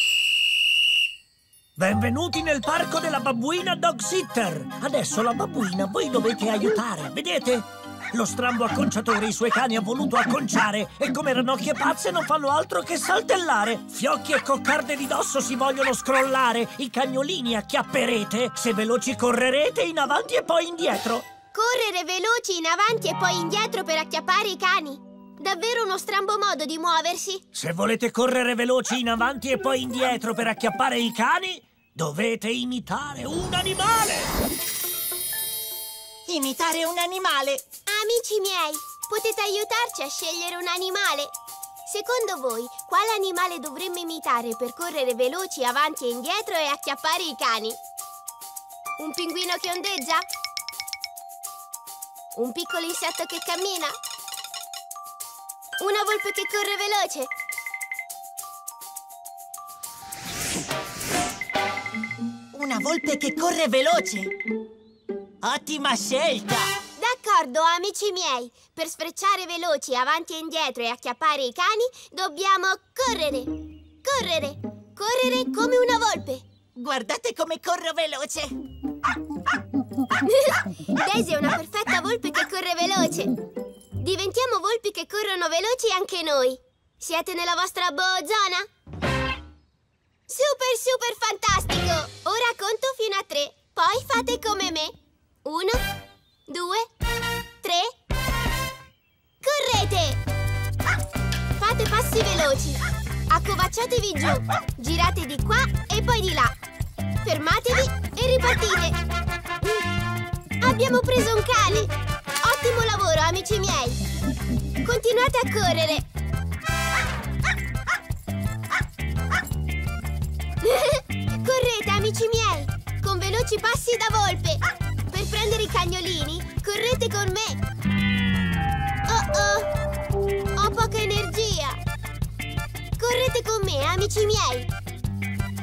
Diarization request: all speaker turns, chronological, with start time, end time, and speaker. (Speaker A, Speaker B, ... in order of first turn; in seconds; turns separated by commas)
Speaker A: 1.8-21.3, Speaker B: 21.5-27.4, Speaker A: 27.5-34.4, Speaker C: 36.3-37.6, Speaker B: 37.9-41.3, Speaker B: 41.9-47.8, Speaker B: 49.0-50.2, Speaker B: 52.3-54.0, Speaker B: 55.8-57.3, Speaker C: 62.5-64.3, Speaker C: 65.4-66.7, Speaker B: 67.0-73.5, Speaker B: 74.0-76.4, Speaker C: 76.7-78.5, Speaker B: 80.2-83.3, Speaker B: 84.0-88.7, Speaker B: 90.3-95.8, Speaker B: 96.5-96.9, Speaker B: 97.6-97.9, Speaker B: 99.4-100.2, Speaker B: 101.6-106.5, Speaker B: 107.2-109.0, Speaker B: 110.6-114.0, Speaker B: 114.8-116.0, Speaker B: 120.6-127.6, Speaker B: 129.1-129.7, Speaker B: 130.5-131.8, Speaker B: 133.0-134.7